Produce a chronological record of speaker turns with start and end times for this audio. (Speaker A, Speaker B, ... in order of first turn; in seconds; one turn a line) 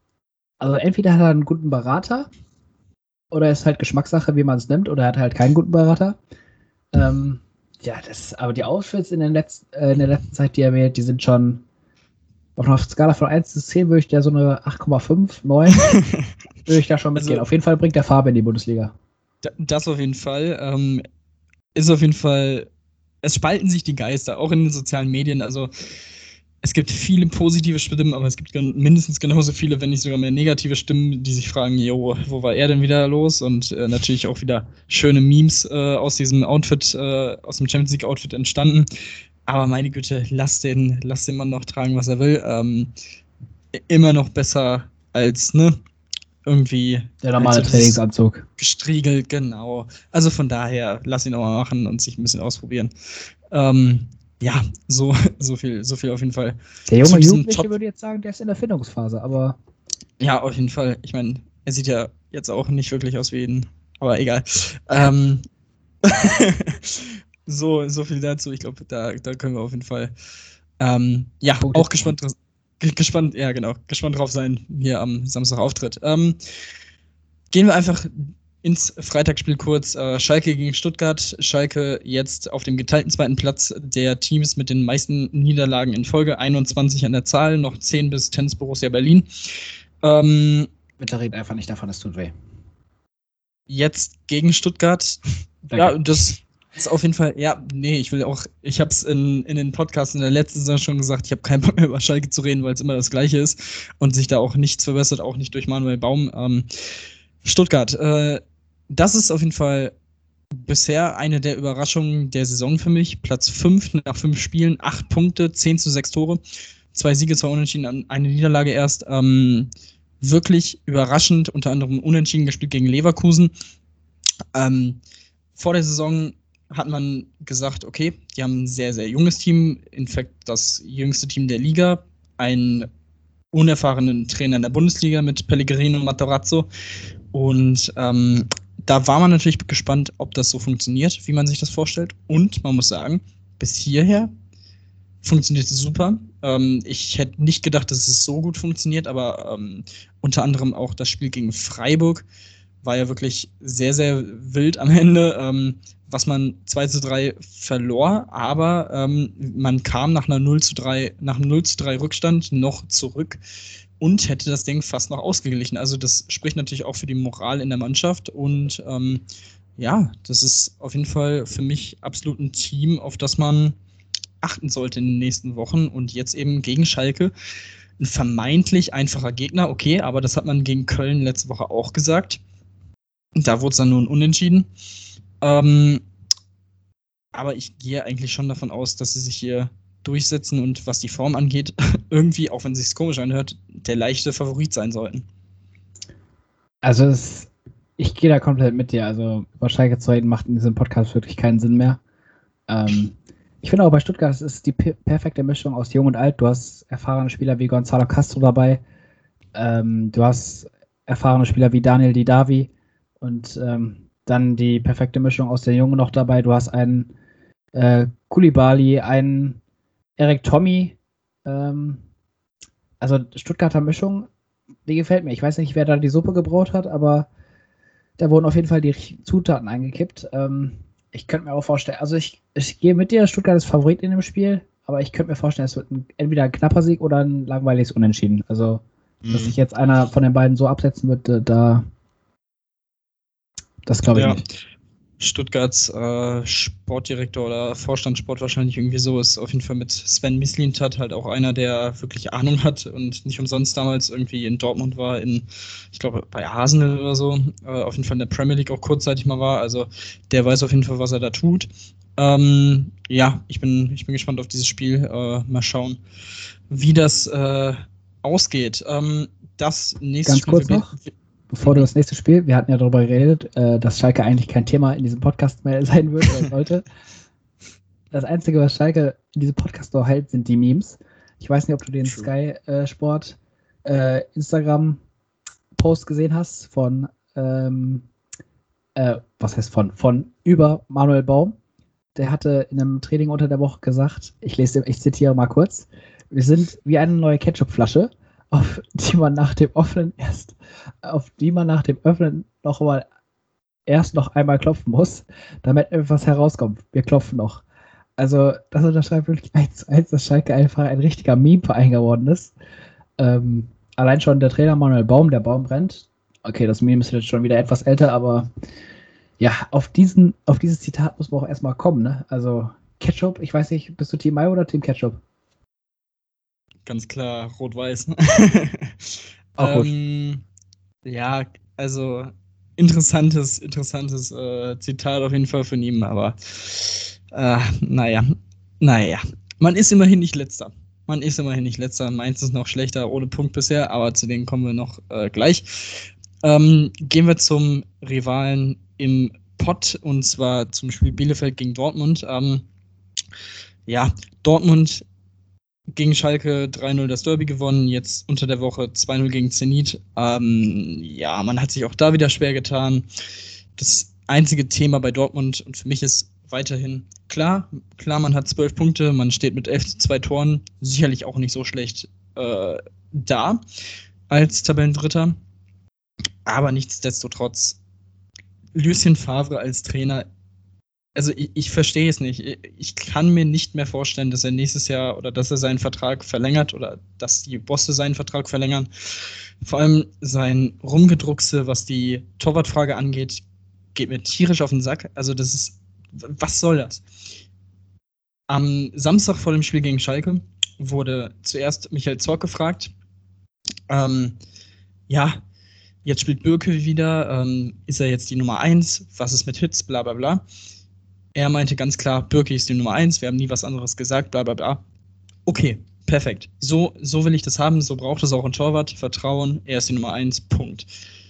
Speaker A: 0.6-2.3
Speaker A: 3.3-6.2
Speaker A: 6.9-11.6
Speaker A: 12.6-15.9
Speaker A: 16.7-18.9
Speaker B: 17.2-17.4
Speaker B: 19.4-21.0
Speaker B: 21.8-22.7
Speaker B: 23.2-25.7
Speaker B: 26.6-38.9
Speaker B: 39.5-42.9
Speaker B: 43.7-45.8
Speaker B: 46.4-48.0
Speaker A: 47.2-48.5
Speaker B: 48.6-52.9
Speaker B: 53.5-57.7
Speaker A: 56.9-59.6
Speaker B: 60.2-65.5
Speaker B: 66.0-70.1
Speaker B: 70.8-76.4
Speaker A: 71.6-72.1
Speaker B: 77.5-89.3
Speaker B: 90.0-90.7
Speaker A: 91.0-92.3
Speaker B: 93.7-95.2
Speaker A: 95.7-96.0
Speaker B: 95.8-106.7
Speaker B: 107.4-109.9
Speaker B: 110.6-116.4
Speaker B: 116.9-119.7
Speaker B: 120.2-123.5
Speaker B: 124.5-125.0
Speaker B: 125.6-132.9
Speaker B: 133.5-136.7
Speaker B: 137.3-144.3
Speaker B: 145.2-152.2
Speaker B: 152.8-163.4
Speaker B: 164.0-169.2
Speaker B: 169.8-173.8
Speaker B: 174.4-177.3
Speaker B: 178.0-182.4
Speaker B: 183.3-184.7
Speaker B: 185.4-186.0
Speaker B: 187.3-195.3
Speaker A: 196.8-202.0
Speaker A: 202.7-208.8
Speaker A: 209.6-212.7
Speaker A: 213.2-217.1
Speaker A: 217.7-219.6
Speaker A: 220.2-222.0
Speaker A: 223.0-224.3
Speaker A: 224.9-227.3
Speaker A: 228.2-241.8
Speaker B: 239.2-239.6
Speaker A: 243.9-244.4
Speaker B: 244.2-244.4
Speaker B: 245.2-266.0
Speaker B: 266.7-271.1
Speaker A: 270.3-270.9
Speaker A: 271.5-276.8
Speaker A: 278.1-285.0
Speaker B: 282.0-282.3
Speaker A: 285.8-288.1
Speaker A: 289.0-291.6
Speaker A: 292.1-303.1
Speaker A: 303.9-307.6
Speaker A: 308.2-312.5
Speaker A: 313.2-318.5
Speaker A: 319.4-325.2
Speaker B: 326.9-330.4
Speaker A: 329.6-329.9
Speaker B: 331.1-338.3
Speaker B: 338.8-352.6
Speaker B: 353.9-355.0
Speaker B: 355.9-363.1
Speaker B: 363.8-373.6
Speaker B: 374.3-375.4
Speaker B: 376.5-377.8
Speaker B: 378.8-380.3
Speaker B: 381.1-393.4
Speaker B: 393.9-397.0
Speaker B: 398.5-402.9
Speaker B: 403.9-404.4
Speaker B: 405.1-405.4
Speaker B: 406.0-410.4
Speaker B: 411.3-414.8
Speaker B: 415.5-420.9